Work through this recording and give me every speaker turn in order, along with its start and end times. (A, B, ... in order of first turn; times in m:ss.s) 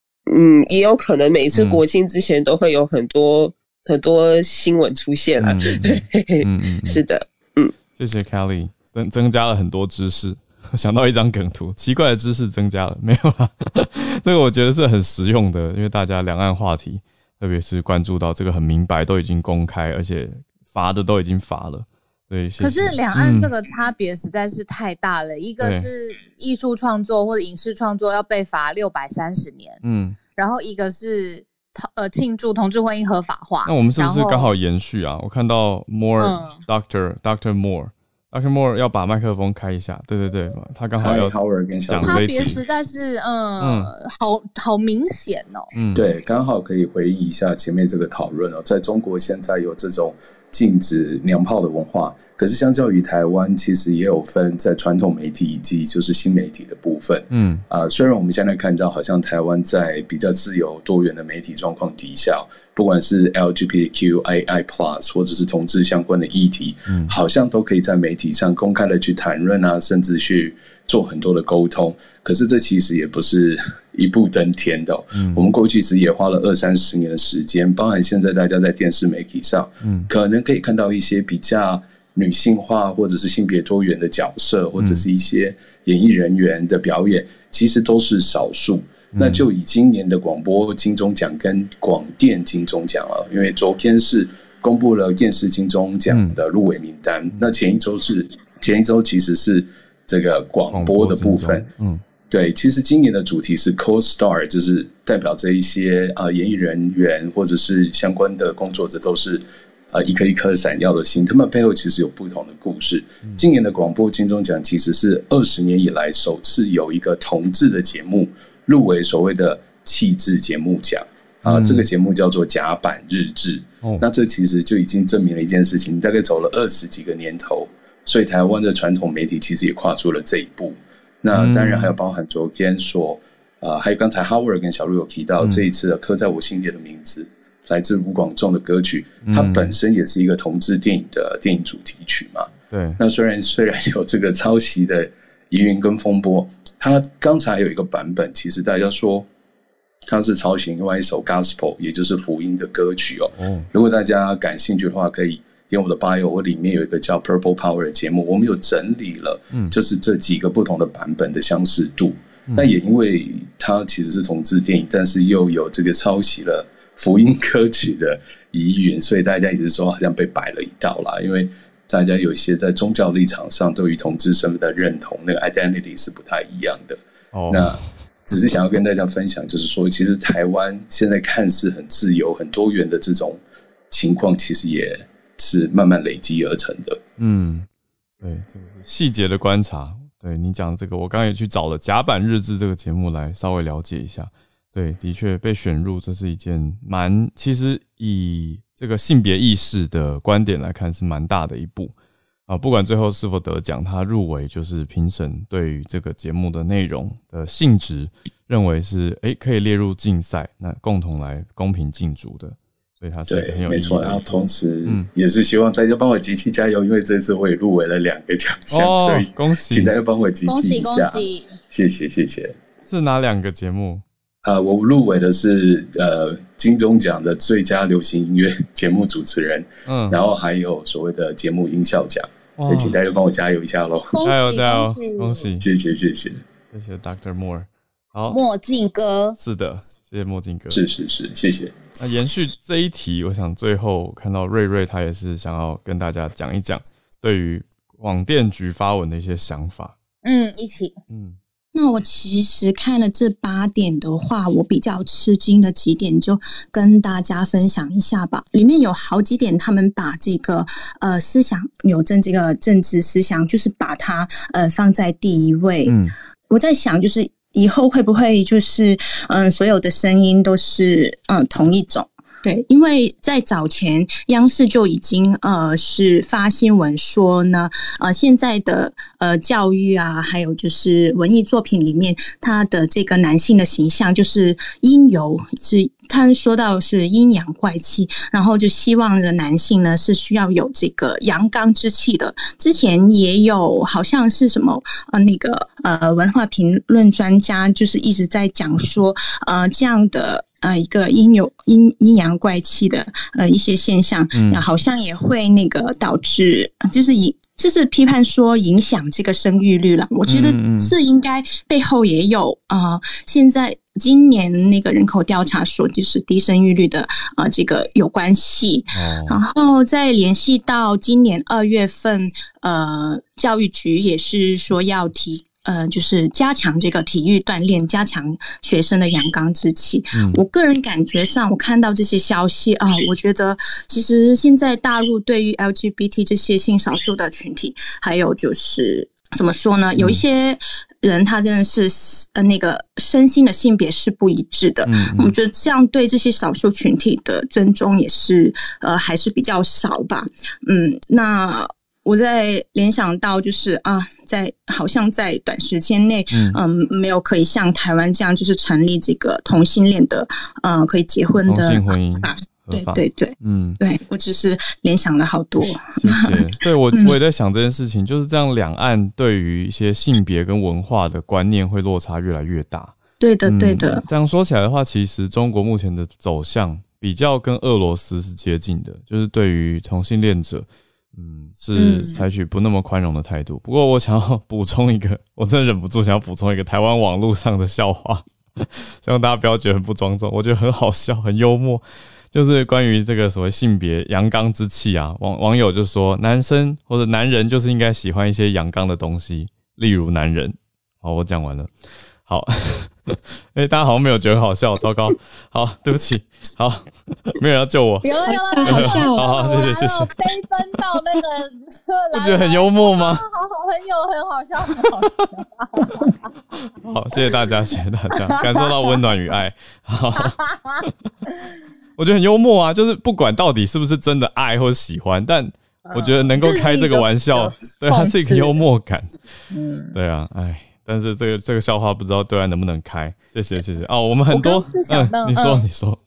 0:00.3-0:07.7 A
0:01.5-0:01.8 B
0:05.4-0:07.0 B
0:08.0-0:23.5 B
0:22.6-0:29.8 C
0:25.6-0:25.9 B
0:29.8-0:30.2 B
0:30.4-0:34.5 C
0:33.6-0:41.3 B
0:36.2-0:36.6 C
0:41.0-0:42.5 D
0:41.8-0:42.6 B
0:42.0-0:45.7 C
0:43.6-0:43.9 B
0:45.7-0:46.0 B
0:45.9-1:41.7 D
0:57.3-0:57.6 B
1:06.9-1:07.1 B
1:15.1-1:15.4 B
1:19.8-1:20.1 B
1:24.8-1:25.0 B
1:29.1-1:29.4 B
1:36.1-1:36.4 B
1:40.7-1:42.0 B
1:42.3-2:29.3 D
2:01.4-2:01.8 B
2:11.3-2:11.9 B
2:19.2-2:19.8 B
2:22.7-2:23.0 B
2:30.1-2:57.0 D
2:33.4-2:33.7 B
2:57.3-2:57.8 B
2:57.5-3:07.0 D
3:07.2-3:07.7 B
3:08.2-3:21.9 B
3:22.5-3:35.1 B
3:33.3-3:42.5 D
3:38.7-3:39.9 B
3:40.4-3:41.5 C
3:42.8-3:44.0 B
3:44.4-3:54.2 D
3:49.8-3:50.2 B
3:52.6-3:53.0 B
3:54.1-3:55.4 C
3:54.2-3:55.6 B
3:55.6-3:56.4 D
3:56.7-3:58.4 B
3:58.3-3:59.4 C
3:59.4-4:00.8 B
4:00.7-4:01.7 D
4:02.0-4:09.9 B
4:10.2-4:11.0 C
4:11.1-4:11.4 B
4:11.7-6:07.2 E
4:25.9-4:26.1 B
5:04.3-5:04.6 B
5:10.3-5:10.9 B
5:18.9-5:19.4 B
5:30.1-5:30.4 B
5:40.0-5:40.2 B
5:44.8-5:45.3 B
5:56.3-5:56.6 B
6:01.5-6:03.8 B
6:06.0-6:41.7 B
6:13.2-6:14.0 E
6:42.3-6:50.1 B
6:48.0-6:56.2 C
6:48.5-6:49.2 E
6:52.1-6:53.2 B
6:54.8-6:55.3 B
6:56.8-7:00.9 B
6:58.3-6:59.0 C
7:00.2-7:01.3 C
7:02.0-7:09.1 B
7:05.8-7:08.5 C
7:09.5-7:09.9 C
7:09.9-7:16.0 B
7:14.3-7:15.6 C